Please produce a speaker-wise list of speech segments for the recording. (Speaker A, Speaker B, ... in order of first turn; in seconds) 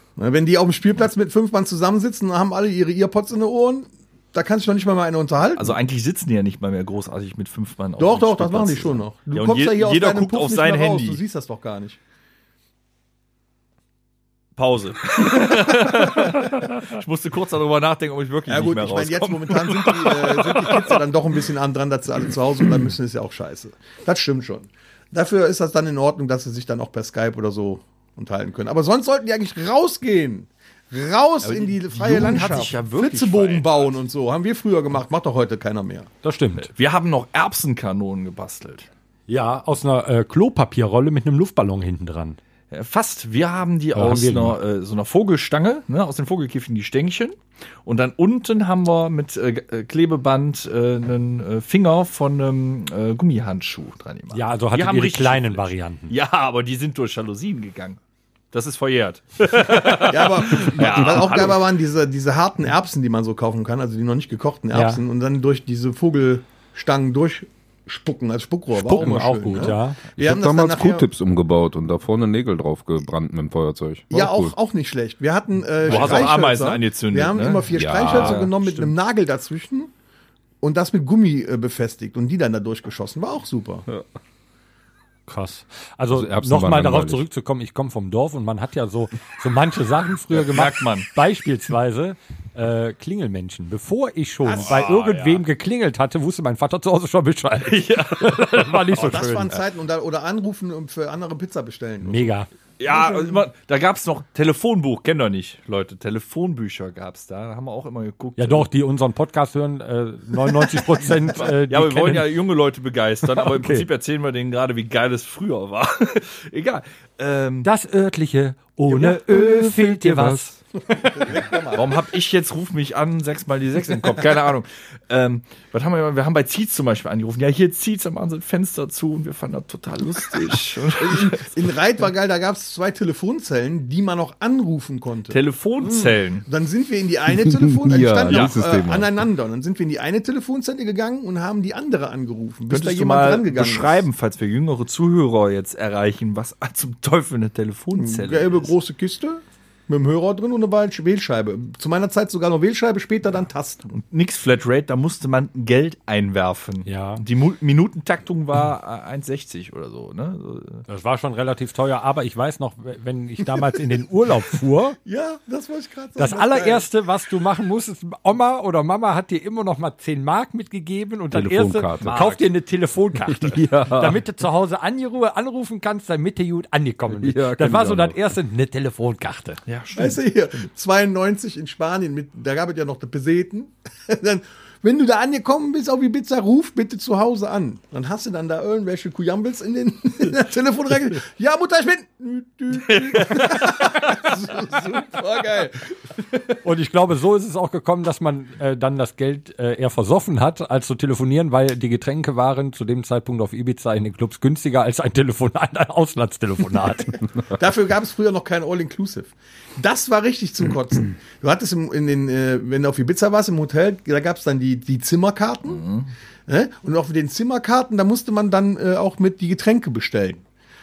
Speaker A: 0.2-5.8, 8.0-12.0, 15.7-16.3, 18.5-36.1, 59.8-71.0, 74.1-79.9, 80.6-83.9, 94.4-95.0, 98.9-102.3, 102.8-103.4, 118.9-119.4, 120.9-122.0, 131.0-144.0, 147.9-153.9, 165.0-166.8, 179.9-196.5, 207.4-215.8, 216.5-220.4
Speaker B: 5.5-11.2, 14.6-21.0, 31.4-33.9, 36.6-38.9, 42.7-58.0, 58.5-61.6, 75.8-78.4, 90.3-91.1, 94.5-95.4, 97.6-99.0, 102.8-108.7, 110.9-117.7, 121.7-131.5, 135.3-136.4, 138.3-138.5, 142.7-148.7, 153.9-160.8, 172.0-172.5, 179.7-180.6, 192.7-194.3, 215.6-216.1
Speaker C: 36.2-36.7, 39.3-42.4, 43.9-44.6, 54.3-56.1, 64.7-65.0, 68.7-70.0, 85.3-99.5, 102.0-102.5, 108.4-112.3, 113.3-113.8, 117.6-120.6, 156.8-157.2, 160.9-165.0, 166.2-179.6, 196.6-207.2
Speaker D: 70.2-74.5, 77.7-78.6, 86.1-87.2, 120.0-120.4, 137.3-139.1, 171.3-172.3, 173.3-174.2, 177.2-178.2